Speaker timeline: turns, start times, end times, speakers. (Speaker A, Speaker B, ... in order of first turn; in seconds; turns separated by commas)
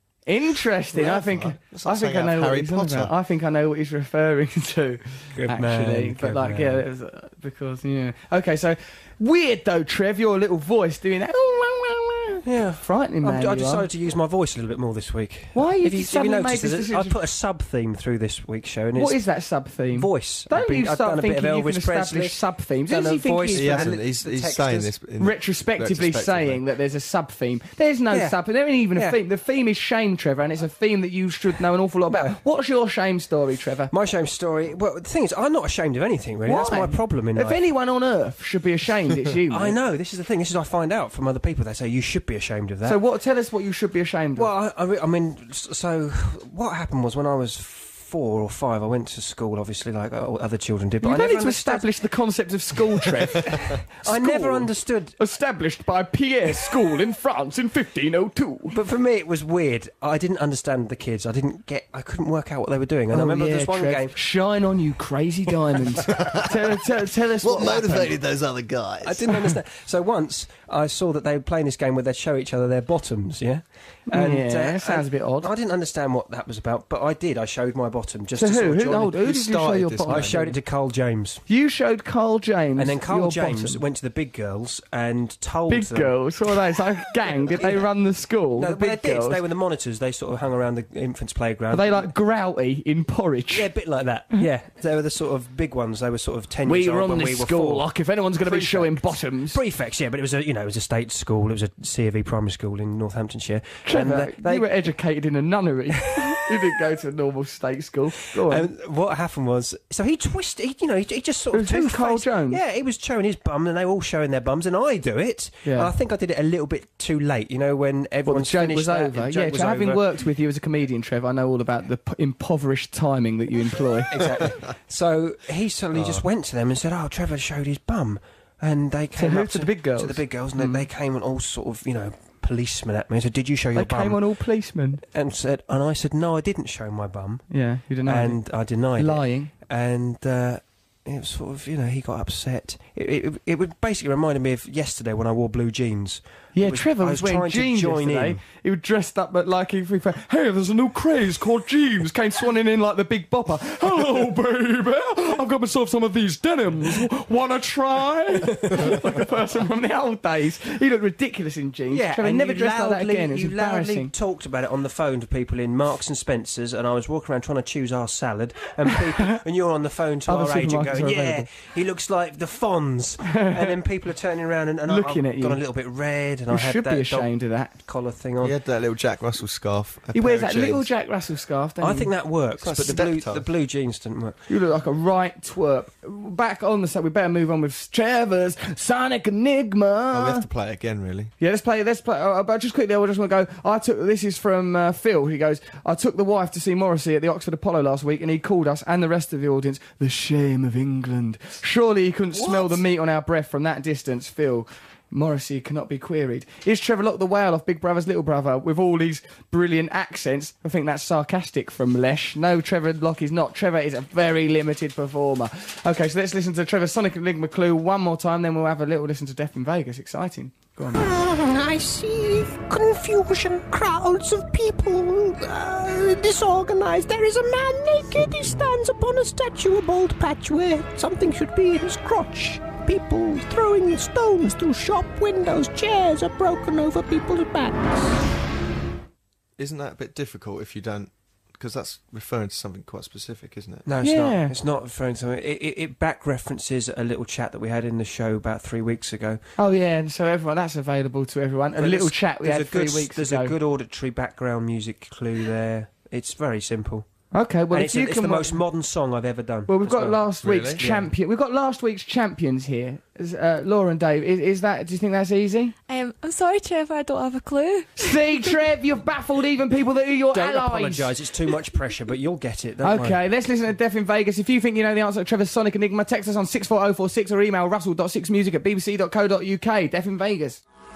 Speaker A: 0.3-13.9, Speaker B: 0.9-3.1, Speaker C: 5.3-6.9, Speaker C: 12.4-19.2, Speaker A: 15.5-17.2, Speaker A: 18.9-23.9, Speaker C: 19.9-24.9, Speaker B: 23.5-26.6, Speaker A: 25.2-33.9, Speaker C: 28.1-28.4, Speaker C: 32.1-32.4, Speaker C: 33.9-37.6, Speaker A: 36.5-39.8, Speaker C: 39.5-43.0, Speaker A: 42.8-44.5, Speaker C: 44.4-51.9, Speaker A: 51.0-58.8, Speaker C: 53.4-55.1, Speaker C: 58.7-64.2, Speaker A: 63.1-68.2, Speaker B: 66.0-66.5, Speaker B: 67.4-69.4, Speaker C: 69.0-79.2, Speaker A: 74.1-75.5, Speaker A: 78.4-80.6, Speaker B: 79.2-80.4, Speaker C: 80.1-81.4, Speaker A: 81.5-83.8, Speaker C: 82.8-86.2, Speaker A: 85.7-89.4, Speaker C: 87.5-87.9, Speaker C: 88.6-92.1, Speaker A: 91.7-93.7, Speaker C: 93.5-97.9, Speaker A: 96.7-99.6, Speaker C: 98.5-99.0, Speaker C: 99.5-104.7, Speaker A: 103.9-108.7, Speaker C: 108.5-120.1, Speaker A: 111.5-112.6, Speaker A: 115.7-115.9, Speaker A: 118.3-124.1, Speaker C: 124.1-134.2, Speaker B: 125.9-126.2, Speaker A: 129.2-130.8, Speaker A: 133.8-135.0, Speaker C: 135.1-137.5, Speaker A: 137.5-138.4, Speaker C: 138.1-148.4, Speaker A: 139.0-139.5, Speaker A: 146.6-164.1, Speaker C: 161.9-178.6, Speaker A: 170.3-171.5, Speaker A: 173.3-173.8, Speaker A: 174.9-175.6, Speaker A: 176.5-177.7, Speaker B: 178.4-180.9, Speaker A: 180.1-182.1, Speaker C: 181.8-184.4, Speaker B: 182.6-183.5, Speaker A: 184.5-190.4, Speaker B: 190.1-191.3, Speaker A: 191.4-221.1, Speaker D: 221.0-238.1, Speaker B: 239.6-243.8, Speaker C: 243.8-249.4, Speaker A: 244.0-244.5, Speaker A: 249.6-253.5, Speaker C: 251.8-257.1, Speaker A: 257.3-258.6, Speaker C: 257.7-261.1, Speaker A: 259.7-265.8, Speaker B: 260.4-260.8, Speaker E: 265.9-268.2, Speaker A: 268.0-271.1, Speaker C: 270.3-273.2, Speaker A: 272.8-280.6